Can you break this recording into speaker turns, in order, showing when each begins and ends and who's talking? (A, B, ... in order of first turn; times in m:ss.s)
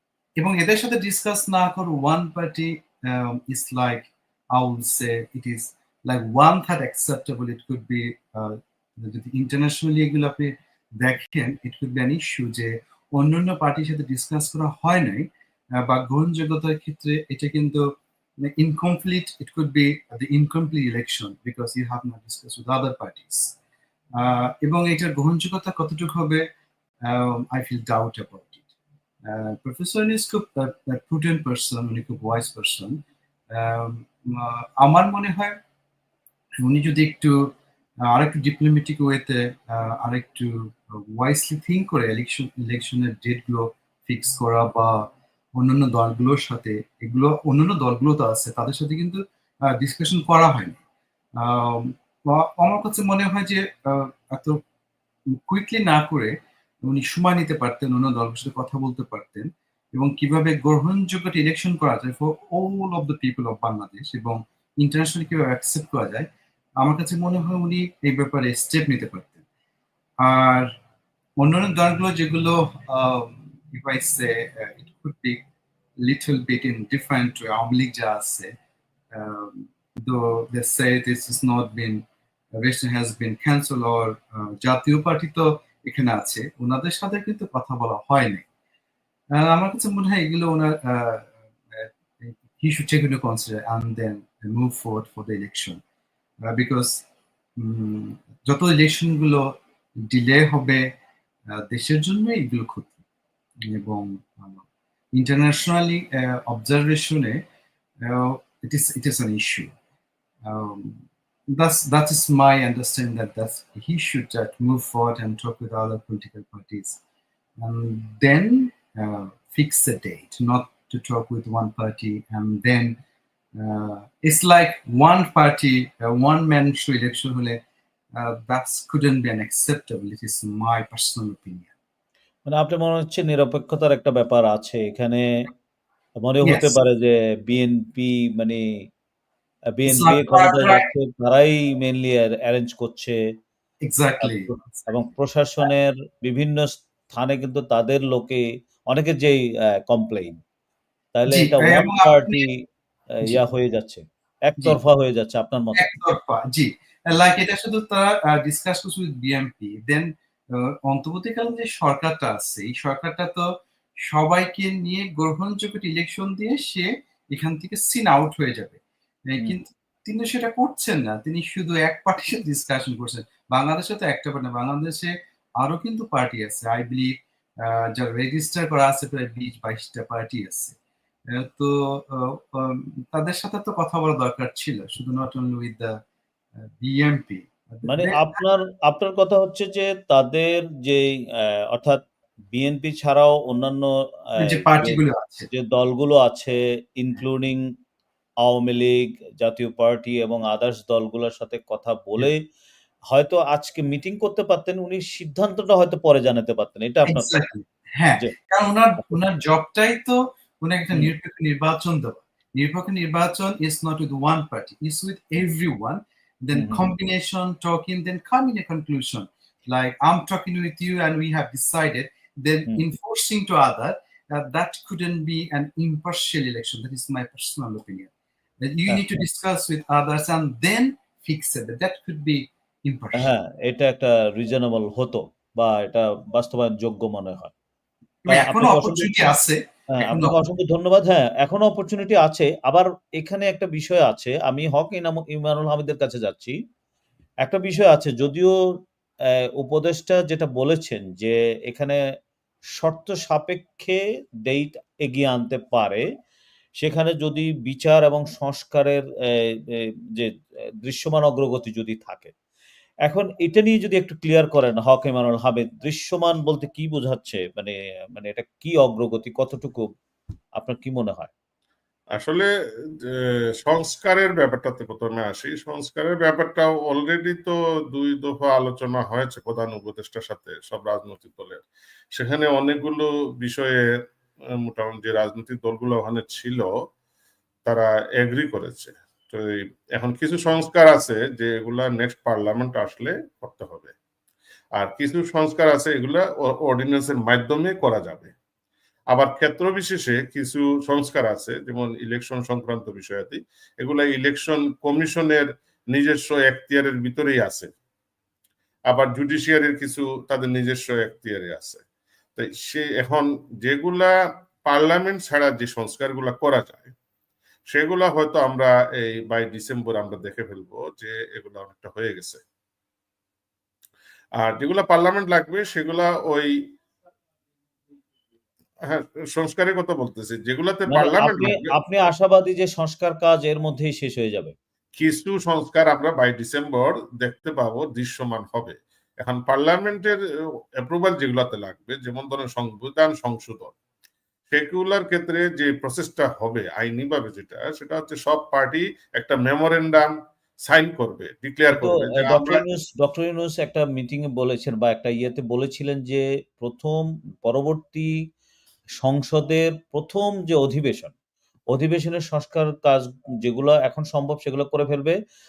0:00.4-0:23.6 A
0:24.2-0:26.5 A
0:27.0-0:28.6 A
0:29.2-0:33.0 A
0:33.5-0:35.6 A
0:36.6-0:37.5 A
0:38.0-0:50.8 A
0:51.4-0:54.6 A
0:55.3-1:06.3 A
1:06.8-1:09.4 A
1:10.2-1:10.7 A
1:11.4-1:15.4 A
1:16.0-1:18.5 A
1:19.1-1:22.0 A
1:22.6-1:28.5 A
1:29.3-1:35.8 A
1:36.5-1:37.0 A
1:37.6-1:39.6 A
1:40.1-1:40.9 A
1:41.5-1:43.0 A
1:43.7-1:44.6 A
1:45.2-1:47.4 A
1:48.0-1:49.7 A
1:50.4-1:57.0 A
1:57.6-2:03.0 A
2:03.6-2:07.6 A
2:08.2-2:11.7 A
2:12.5-2:15.3 B
2:16.2-2:18.6 B
2:16.4-2:16.8 A
2:19.8-2:23.2 B
2:19.8-2:20.9 A
2:23.8-2:24.9 A
2:24.2-2:29.4 B
2:29.9-2:30.4 B
2:31.2-2:32.6 B
2:31.3-2:32.5 A
2:33.2-2:35.8 B
2:35.8-2:43.5 A
2:44.1-3:00.8 A
3:01.3-3:06.0 A
3:06.6-3:08.4 A
3:07.9-3:11.1 B
3:11.7-3:12.0 B
3:12.5-3:15.0 B
3:14.4-3:15.5 A
3:15.5-3:17.6 B
3:18.4-3:22.4 B
3:23.1-3:27.4 B
3:27.1-3:48.1 A
3:36.5-3:36.9 B
3:48.6-3:53.3 A
3:48.9-3:49.2 B
3:53.2-3:57.5 B
3:58.2-4:00.4 A
3:58.3-3:59.4 B
3:59.9-4:06.6 B
4:07.4-4:08.5 B
4:09.6-4:12.0 B
4:12.8-4:16.0 B
4:16.8-4:20.3 B
4:20.8-4:22.3 B
4:23.1-4:29.9 B
4:30.6-4:31.3 B
4:32.2-4:32.5 C
4:33.0-4:43.8 C
4:44.5-4:46.7 C
4:47.7-4:53.9 C
4:54.8-4:58.3 C
4:59.1-5:07.7 C
5:08.9-5:11.8 C
5:12.4-5:14.1 C
5:14.7-5:16.9 C
5:17.7-5:22.4 C
5:24.4-5:26.5 C
5:28.8-5:31.7 C
5:30.9-5:34.5 B
5:35.0-5:40.2 C
5:40.8-5:43.8 C
5:44.5-5:50.1 C
5:50.7-5:52.6 C
5:51.7-5:58.1 B
5:59.0-6:01.1 B
6:01.7-6:05.2 B